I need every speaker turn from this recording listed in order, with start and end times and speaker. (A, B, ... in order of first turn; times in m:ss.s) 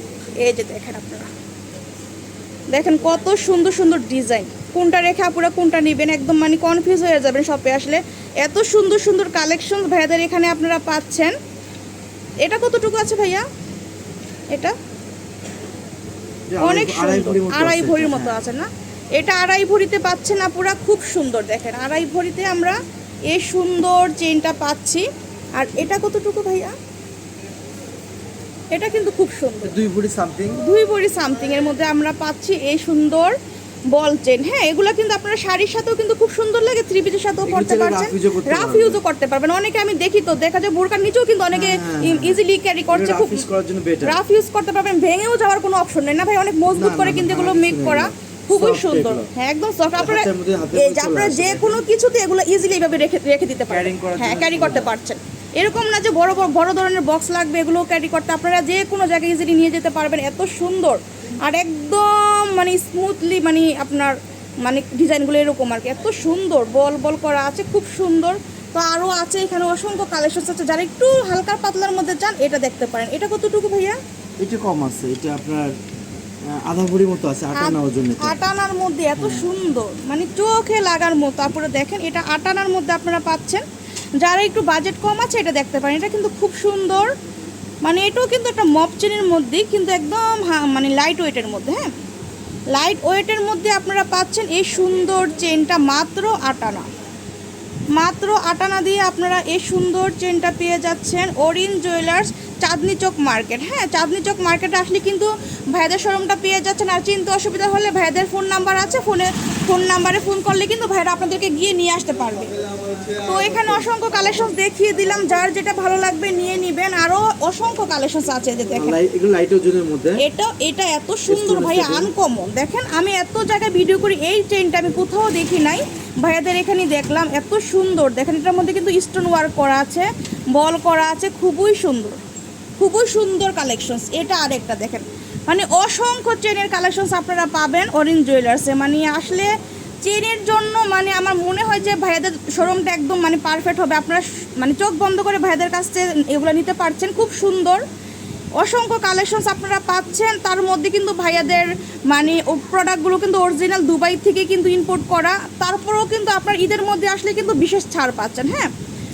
0:00.4-0:01.3 A
0:02.7-0:11.3 A
0:12.4-0:13.4 A
0:16.5-0:18.4 B
0:16.6-0:22.8 A
0:23.3-0:25.0 A
0:25.6-0:26.7 A
0:28.7-0:29.8 A
0:29.6-0:30.6 B
0:30.6-0:33.4 A
0:33.9-0:43.4 A
0:37.4-0:39.0 B
0:41.5-0:44.2 B
0:44.0-1:14.0 A
0:46.7-0:49.3 B
0:50.0-0:51.8 B
0:53.7-0:54.9 B
1:14.4-1:15.8 B
1:16.5-1:18.4 B
1:17.6-1:23.6 A
1:19.2-1:19.5 B
1:24.2-1:27.1 A
1:27.8-1:31.9 A
1:32.7-1:36.9 A
1:37.9-1:52.6 A
1:53.2-1:59.0 A
1:53.6-1:53.8 B
1:58.7-2:00.2 B
2:00.2-2:12.2 A
2:01.3-2:02.1 B
2:12.8-2:19.5 A
2:20.0-2:27.8 A
2:28.6-2:38.7 A